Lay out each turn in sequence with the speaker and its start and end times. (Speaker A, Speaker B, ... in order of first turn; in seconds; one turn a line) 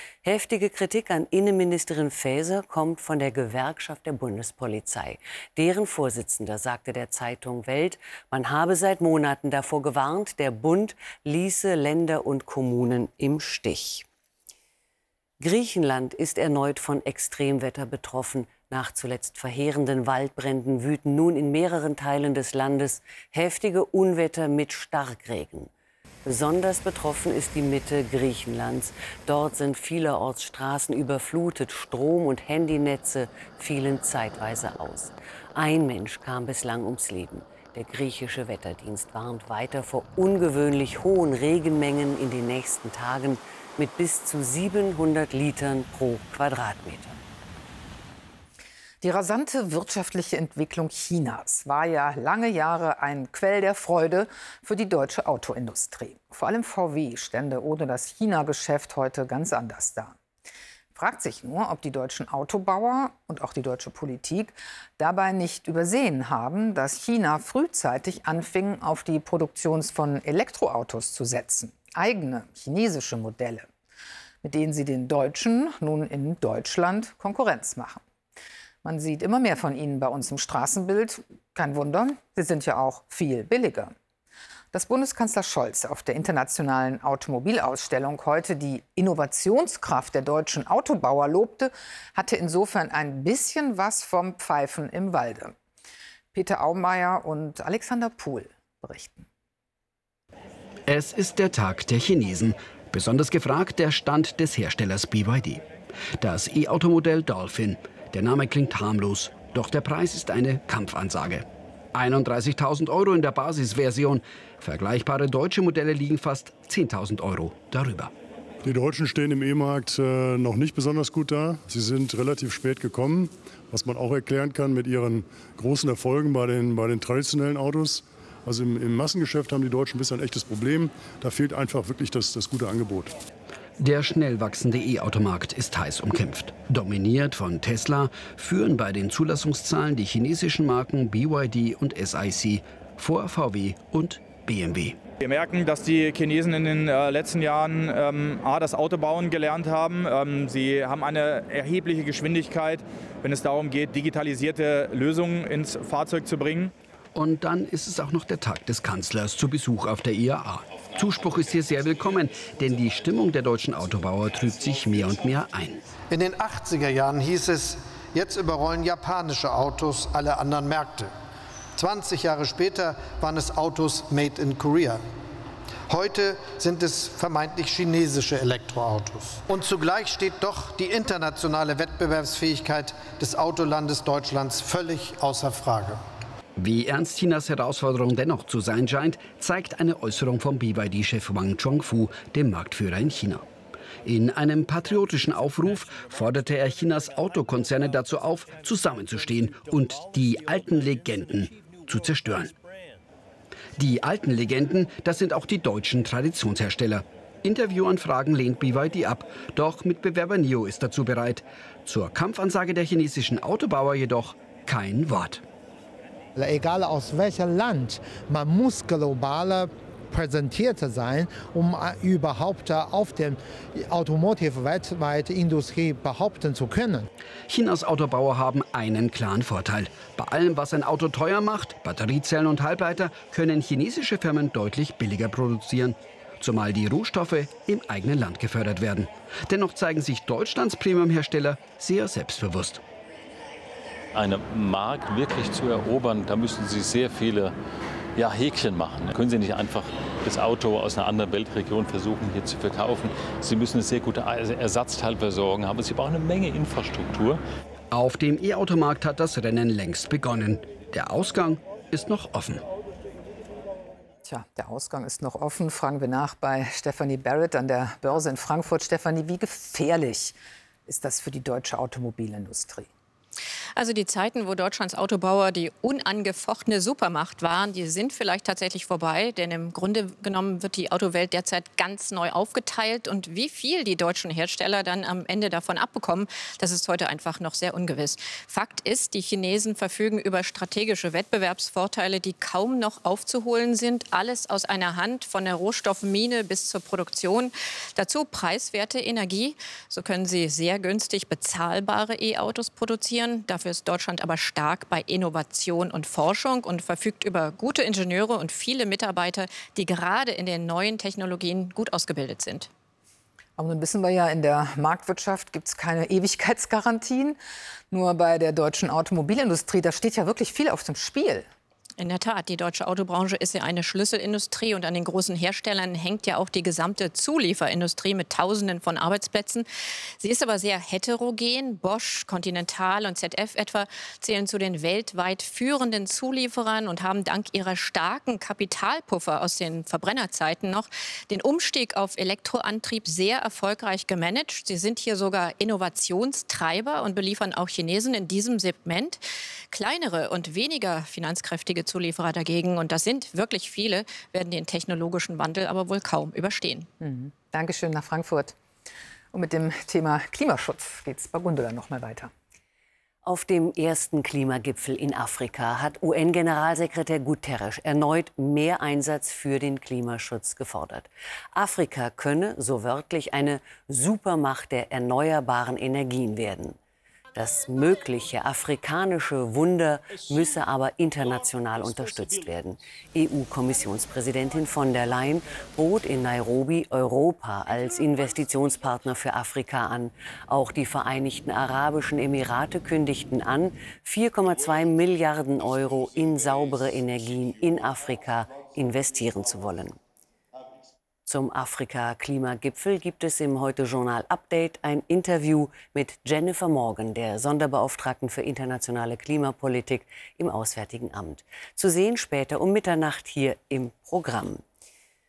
Speaker A: 0.2-14.0
Speaker A: 15.4-25.7
Speaker A: 26.2-47.2
Speaker B: 49.0-60.2
Speaker B: 60.9-73.7
Speaker B: 74.4-78.0
Speaker B: 78.8-83.9
Speaker B: 84.7-95.5
Speaker B: 96.3-99.3
Speaker C: 100.9-105.6
Speaker C: 106.2-118.1
Speaker D: 118.6-133.2
Speaker C: 133.8-145.0
Speaker E: 145.2-156.7
Speaker C: 157.1-165.8
Speaker F: 160.8-161.4
Speaker G: 166.1-171.1
Speaker G: 171.8-175.0
Speaker G: 175.9-186.0
Speaker C: 186.6-193.4
Speaker C: 194.0-202.5
Speaker C: 203.8-215.4
Speaker H: 216.3-227.1
Speaker C: 227.5-242.8
Speaker F: 244.1-247.5
Speaker F: 248.2-257.4
Speaker C: 257.9-262.6
Speaker B: 264.2-272.9
Speaker I: 273.8-312.7
Speaker B: 313.6-317.4
Speaker B: 317.9-321.5
Speaker I: 322.0-329.6
Speaker I: 330.2-349.2
Speaker I: 349.7-356.9
Speaker B: 357.0-358.6
Speaker B: 359.3-362.3
Speaker A: 363.2-376.8
Speaker A: 377.3-400.0
Speaker A: 401.2-414.6